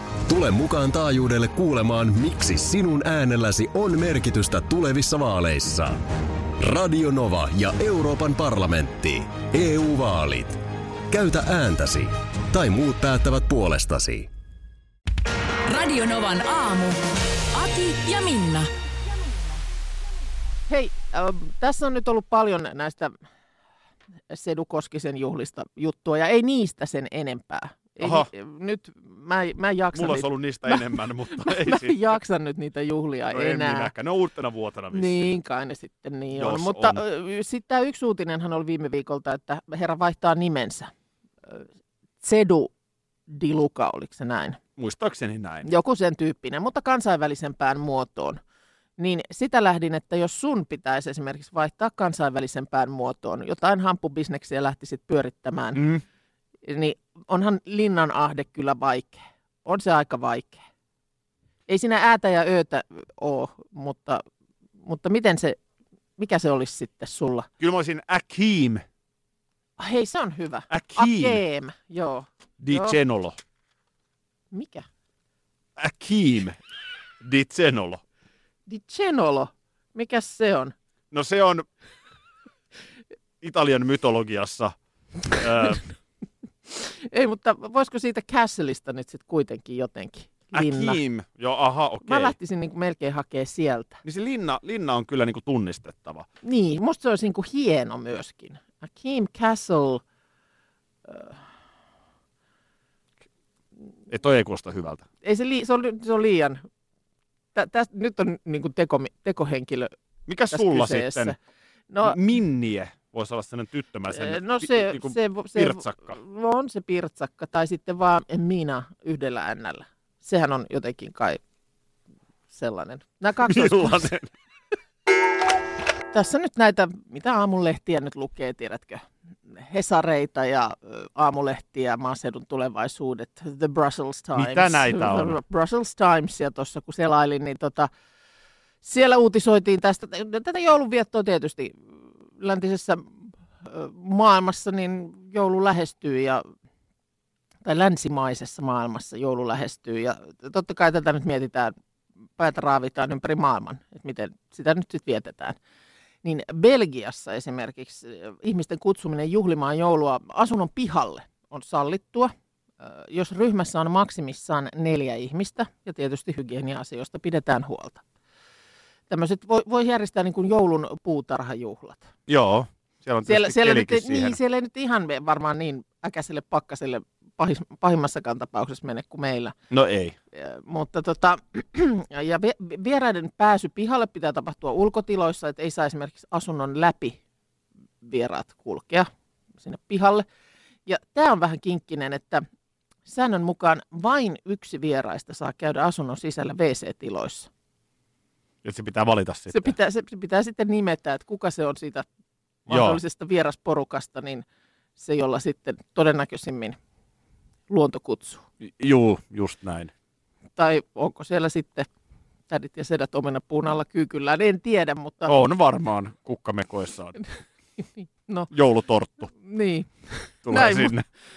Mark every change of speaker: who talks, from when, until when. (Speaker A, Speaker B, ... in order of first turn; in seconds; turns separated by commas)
Speaker A: 0.2-6.0, Speaker A: 6.6-14.3, Speaker B: 15.7-17.0, Speaker B: 17.5-18.7, Speaker C: 20.7-23.1, Speaker C: 24.3-33.9, Speaker D: 28.0-28.3, Speaker D: 29.9-32.2, Speaker D: 33.3-35.3, Speaker C: 34.9-40.9, Speaker D: 36.4-37.0, Speaker C: 42.2-42.7, Speaker C: 43.3-44.6, Speaker D: 44.8-45.7, Speaker C: 45.6-48.4, Speaker C: 49.0-55.8, Speaker D: 55.8-56.0, Speaker C: 56.6-60.6, Speaker C: 61.7-64.2, Speaker C: 64.8-65.6, Speaker C: 66.2-67.5, Speaker D: 67.6-68.8, Speaker C: 69.8-73.0, Speaker D: 70.7-71.4, Speaker D: 72.6-73.4, Speaker C: 74.5-74.8, Speaker D: 75.8-76.6, Speaker D: 77.2-78.0, Speaker C: 78.7-80.7, Speaker D: 81.1-81.7, Speaker D: 83.4-84.8, Speaker D: 85.3-85.8, Speaker C: 86.7-91.0, Speaker D: 90.5-92.3, Speaker C: 92.1-94.0, Speaker D: 94.0-96.3, Speaker C: 96.4-100.0, Speaker C: 101.1-101.4, Speaker D: 104.1-105.1, Speaker C: 105.2-106.6, Speaker C: 107.5-109.9, Speaker D: 110.3-111.4, Speaker C: 110.5-111.4, Speaker C: 111.9-112.2, Speaker D: 112.0-116.2, Speaker C: 114.1-121.4, Speaker C: 122.5-123.9, Speaker D: 123.4-124.3, Speaker C: 126.1-137.9, Speaker D: 134.3-135.4, Speaker C: 138.8-141.8, Speaker C: 142.4-146.4, Speaker C: 147.7-151.7, Speaker C: 152.4-155.6, Speaker C: 156.2-168.0, Speaker C: 169.1-172.1, Speaker D: 172.3-174.4, Speaker C: 173.2-179.6, Speaker D: 179.7-180.2, Speaker C: 180.3-187.2, Speaker C: 188.0-189.1, Speaker C: 189.6-190.2, Speaker C: 190.9-192.4, Speaker C: 193.1-197.5, Speaker D: 198.6-199.8, Speaker C: 199.5-202.1, Speaker C: 202.7-204.4, Speaker D: 202.7-203.0, Speaker C: 205.0-206.8, Speaker C: 207.7-208.4, Speaker D: 208.6-209.9, Speaker C: 210.6-211.9, Speaker C: 212.5-215.3, Speaker D: 215.2-217.2, Speaker C: 218.0-218.5, Speaker D: 218.5-219.3, Speaker C: 219.3-219.9, Speaker D: 220.4-221.1, Speaker C: 220.5-220.9